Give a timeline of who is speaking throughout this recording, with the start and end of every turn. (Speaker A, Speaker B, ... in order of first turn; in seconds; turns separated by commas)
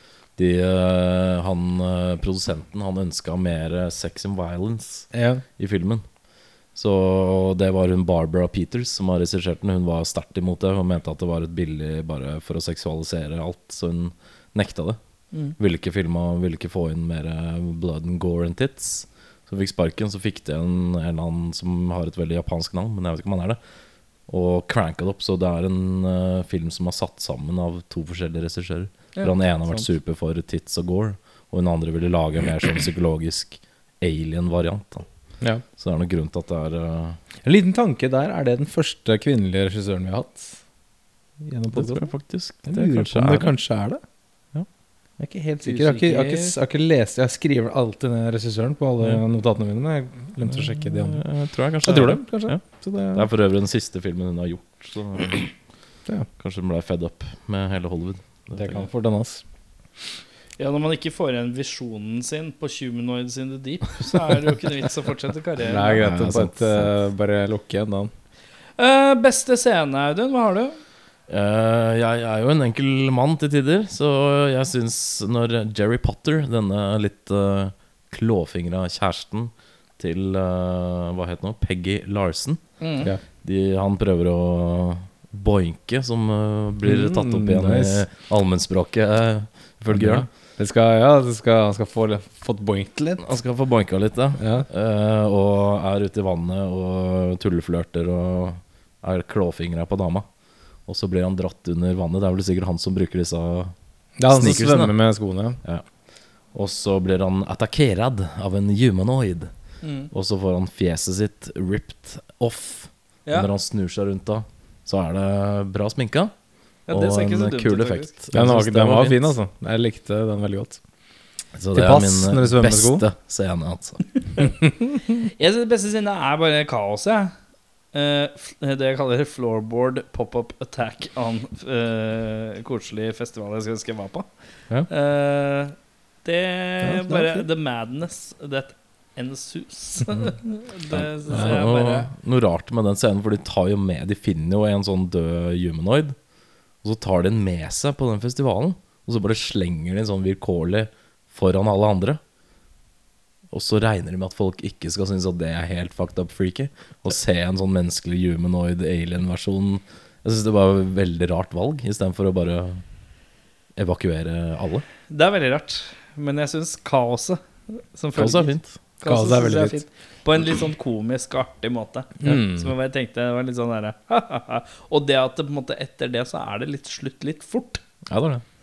Speaker A: 0.4-6.0, Speaker B: 5.1-5.4, Speaker A: 6.7-15.0, Speaker A: 15.6-23.6, Speaker A: 24.3-35.0, Speaker A: 35.8-37.2, Speaker B: 37.4-40.6, Speaker B: 41.4-42.1, Speaker A: 41.7-43.5, Speaker B: 42.6-44.0, Speaker B: 45.2-51.2, Speaker C: 45.6-46.5, Speaker A: 50.5-55.5, Speaker B: 51.8-53.3, Speaker A: 56.4-58.8, Speaker B: 58.5-59.4, Speaker C: 60.6-65.9, Speaker B: 65.6-68.1, Speaker A: 65.8-66.9, Speaker C: 68.8-70.8, Speaker A: 71.3-82.6, Speaker C: 82.8-83.1, Speaker A: 83.4-90.3, Speaker B: 86.8-88.0, Speaker B: 89.9-93.2, Speaker A: 93.2-100.2, Speaker B: 94.4-94.7, Speaker A: 100.9-103.7, Speaker B: 104.2-105.6, Speaker A: 104.3-104.9, Speaker A: 106.5-109.5, Speaker C: 109.8-110.1, Speaker A: 110.1-116.3, Speaker C: 116.9-118.1, Speaker A: 116.9-119.3, Speaker B: 118.3-120.8, Speaker A: 121.5-124.0, Speaker B: 121.7-123.0, Speaker B: 124.6-124.9, Speaker C: 125.4-127.3, Speaker C: 127.9-134.3, Speaker C: 134.9-142.1, Speaker B: 136.8-137.4, Speaker A: 140.9-146.2, Speaker A: 146.8-152.2, Speaker A: 153.5-162.8, Speaker A: 163.8-164.8, Speaker C: 165.1-177.8, Speaker A: 168.2-168.8, Speaker B: 169.0-169.8, Speaker B: 172.2-172.7, Speaker A: 178.1-178.4